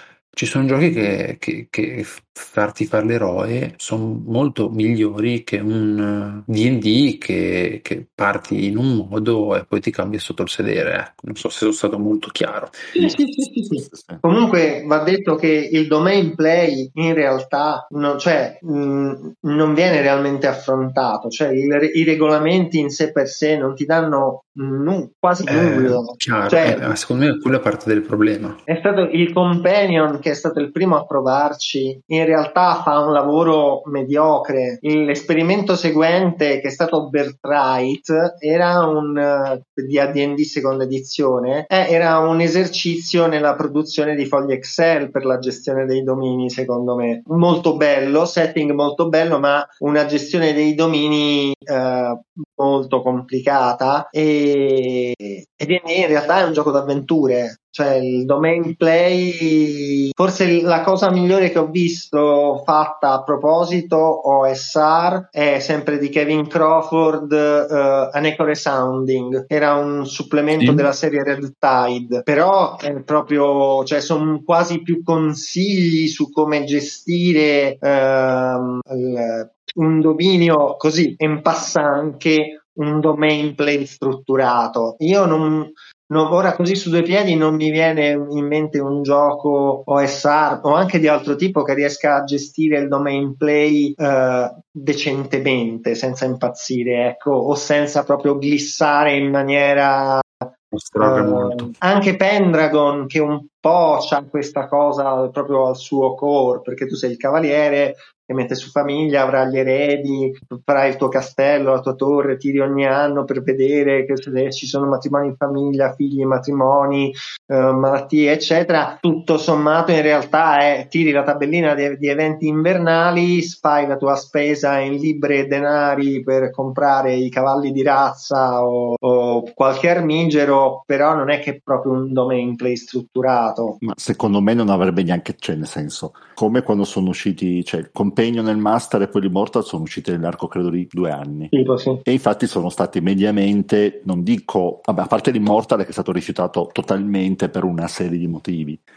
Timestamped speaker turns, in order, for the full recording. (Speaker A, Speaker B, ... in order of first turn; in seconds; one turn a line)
Speaker A: 0.3-13.1
Speaker B: 12.9-26.8
Speaker C: 13.7-14.2
Speaker A: 25.5-28.6
Speaker B: 28.7-100.5
Speaker A: 70.5-70.9
Speaker A: 100.7-101.8
Speaker B: 101.0-133.8
Speaker C: 133.8-141.5
Speaker B: 141.5-142.0
Speaker C: 142.0-148.8